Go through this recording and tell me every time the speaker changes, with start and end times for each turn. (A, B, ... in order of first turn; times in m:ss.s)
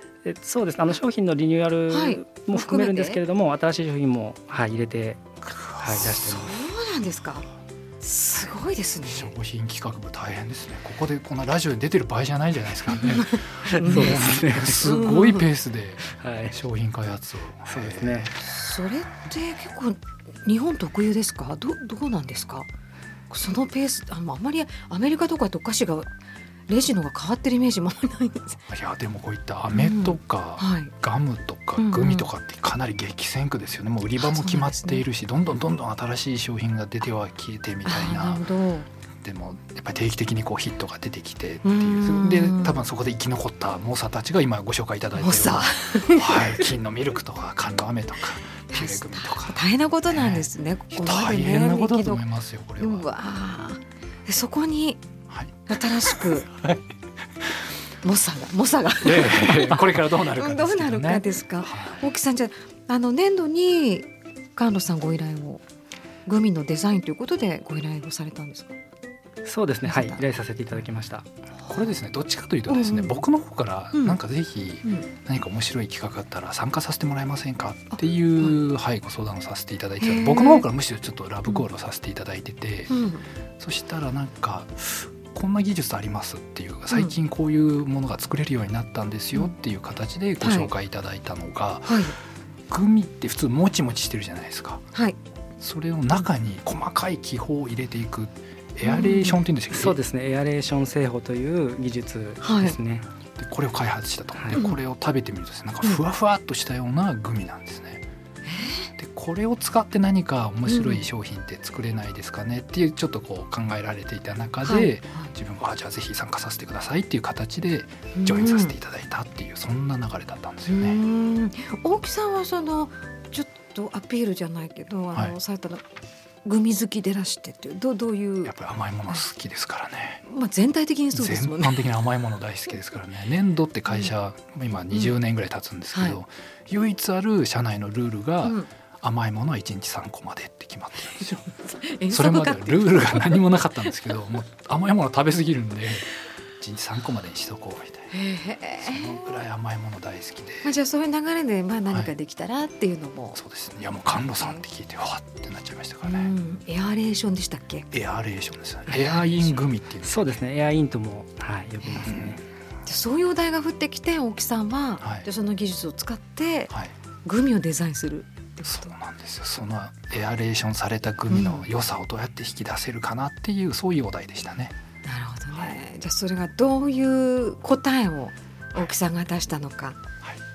0:00.2-0:06.6 A
0:01.9-0:03.2 B
0:05.5-0:06.3 C
0:06.0-0:07.5 B
0:08.0-0:09.3 B
0:09.1-0:18.4 C
0:12.9-0:15.5 B
0:13.7-0:14.9 A
0:16.1-0:16.6 A
0:17.7-0:18.3 A
0:18.4-0:22.7 B
0:23.3-0:26.1 B
0:26.7-0:28.6 B
0:28.7-0:38.5 C
0:29.7-0:30.9 B
0:31.8-0:32.3 B
0:34.2-0:35.0 B
0:37.8-0:38.9 B
0:39.2-0:53.1 C
0:41.6-0:42.8 B
0:45.2-0:46.6 B
0:48.7-0:52.2 B
0:52.8-0:55.0 B
0:55.3-0:57.5 C
0:55.7-0:56.5 B
0:58.0-1:05.6 B
0:59.0-1:02.0 C
1:06.3-1:08.8 B
1:09.4-1:11.3 A
1:09.8-1:10.2 B
1:11.7-1:23.0 C
1:12.7-1:13.2 B
1:18.0-1:18.5 B
1:20.0-1:20.7 B
1:22.9-1:23.2 B
1:23.6-1:32.1 C
1:30.4-1:30.7 B
1:31.9-1:32.2 B
1:32.7-1:34.8 C
1:35.6-1:40.0 C
1:38.8-1:39.4 B
1:39.7-1:43.1 A
1:42.4-1:42.8 B
1:43.4-1:48.1 C
1:48.5-1:48.9 B
1:49.0-2:01.0 C
1:50.7-1:51.0 B
1:54.6-1:55.3 B
1:58.2-1:58.8 B
2:00.7-2:05.8 B
2:06.4-2:08.5 B
2:08.4-2:10.2 C
2:10.2-2:11.8 B
2:11.1-2:21.5 C
2:21.5-2:23.5 B
2:22.1-2:28.1 C
2:28.1-2:29.2 B
2:28.8-2:30.7 C
2:30.6-2:33.4 B
2:33.4-2:36.3 C
2:36.0-2:37.9 B
2:37.9-2:40.4 C
2:38.9-2:39.6 B
2:40.0-2:42.4 A
2:41.8-2:42.2 B
2:42.1-2:42.3 C
2:42.8-2:46.7 B
2:45.0-2:45.3 C
2:47.2-2:48.9 B
2:48.6-2:54.8 C
2:51.3-2:51.7 B
2:55.0-3:00.0 B